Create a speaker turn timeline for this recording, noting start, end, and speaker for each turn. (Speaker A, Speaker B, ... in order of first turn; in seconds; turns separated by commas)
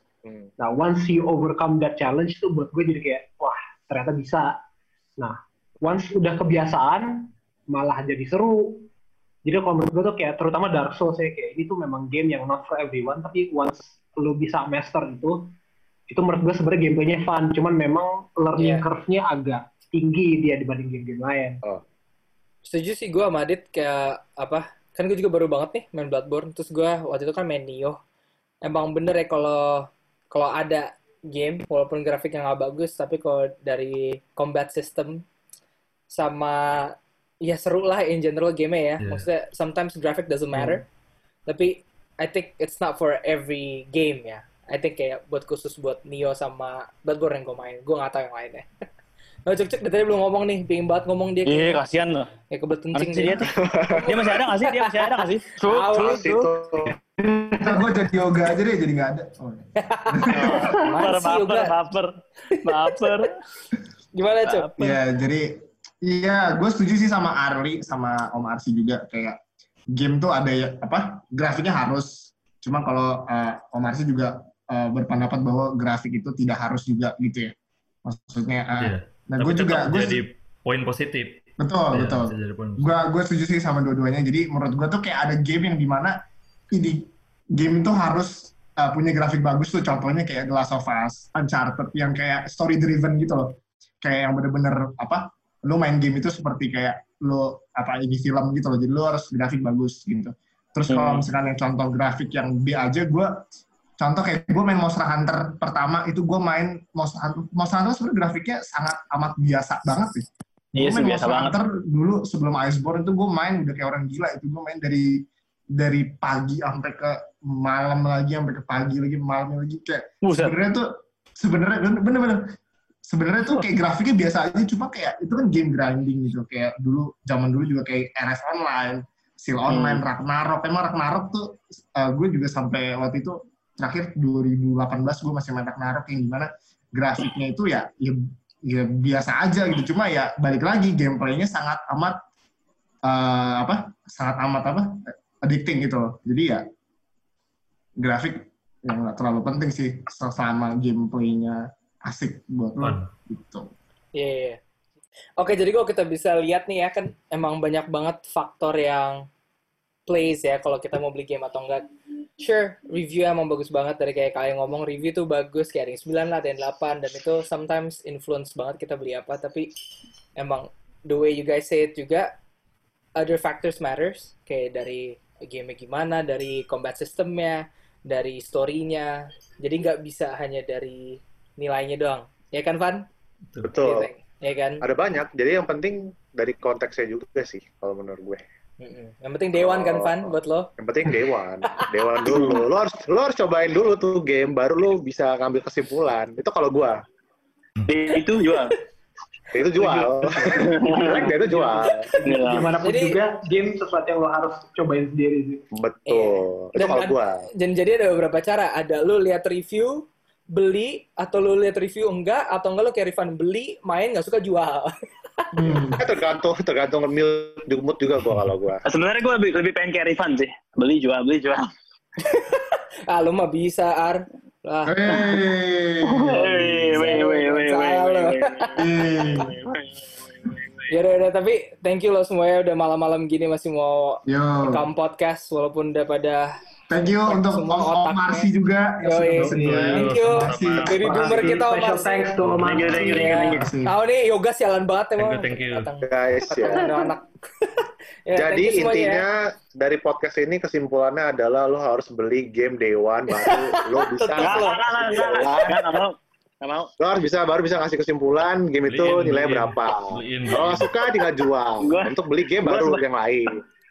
Speaker A: 0.6-4.5, Speaker A: 5.2-8.9, Speaker A: 9.4-15.5, Speaker A: 16.1-21.6, Speaker B: 18.6-18.8, Speaker B: 22.7-28.0, Speaker B: 28.6-35.2, Speaker B: 36.1-40.8, Speaker C: 39.0-39.3, Speaker B: 41.5-48.6, Speaker B: 49.5-51.8, Speaker D: 51.5-52.3, Speaker B: 52.5-56.2, Speaker D: 52.9-56.5, Speaker E: 53.6-54.3, Speaker E: 56.0-57.0, Speaker F: 57.5-60.7, Speaker B: 59.9-61.7, Speaker D: 60.3-62.1, Speaker B: 62.5-63.3, Speaker D: 62.6-63.3, Speaker B: 64.1-64.7, Speaker D: 64.5-64.9, Speaker F: 64.8-69.4, Speaker F: 69.9-77.5, Speaker F: 78.0-80.2, Speaker C: 78.8-82.9, Speaker F: 81.6-86.2, Speaker F: 86.7-103.4, Speaker D: 100.9-101.2, Speaker F: 104.0-122.4, Speaker D: 110.8-111.5, Speaker D: 120.2-120.5, Speaker F: 123.1-142.2, Speaker D: 129.7-130.0, Speaker F: 143.0-146.6, Speaker F: 148.0-153.6, Speaker C: 152.8-153.1, Speaker B: 154.2-154.6, Speaker B: 155.4-159.2, Speaker B: 160.1-161.8, Speaker B: 162.4-169.7, Speaker B: 170.4-172.3, Speaker B: 173.2-183.0, Speaker E: 183.6-184.1, Speaker B: 183.8-184.8, Speaker E: 184.8-188.4, Speaker B: 188.8-190.7, Speaker E: 189.5-197.0, Speaker B: 192.2-192.6, Speaker D: 197.9-198.7, Speaker E: 199.5-202.1, Speaker A: 199.7-205.6, Speaker D: 200.6-201.2, Speaker D: 202.2-202.7, Speaker B: 202.8-203.2, Speaker E: 205.7-207.4, Speaker B: 206.1-214.9, Speaker F: 215.5-216.0, Speaker E: 216.0-218.8, Speaker D: 218.8-221.6, Speaker B: 222.3-225.2, Speaker F: 224.8-227.2, Speaker D: 226.0-230.9, Speaker B: 227.1-228.7, Speaker F: 228.8-229.5, Speaker B: 230.9-236.5, Speaker F: 234.3-234.8, Speaker F: 236.9-241.1, Speaker B: 237.3-238.5, Speaker B: 239.0-249.2, Speaker C: 239.4-241.3, Speaker A: 240.9-243.4, Speaker C: 242.4-243.2, Speaker D: 242.6-243.7, Speaker F: 243.5-243.9, Speaker C: 245.2-245.9, Speaker E: 246.0-246.9, Speaker E: 248.3-255.9, Speaker B: 253.4-254.8, Speaker D: 254.4-256.9, Speaker E: 257.0-263.6, Speaker C: 258.9-260.9, Speaker D: 261.8-263.0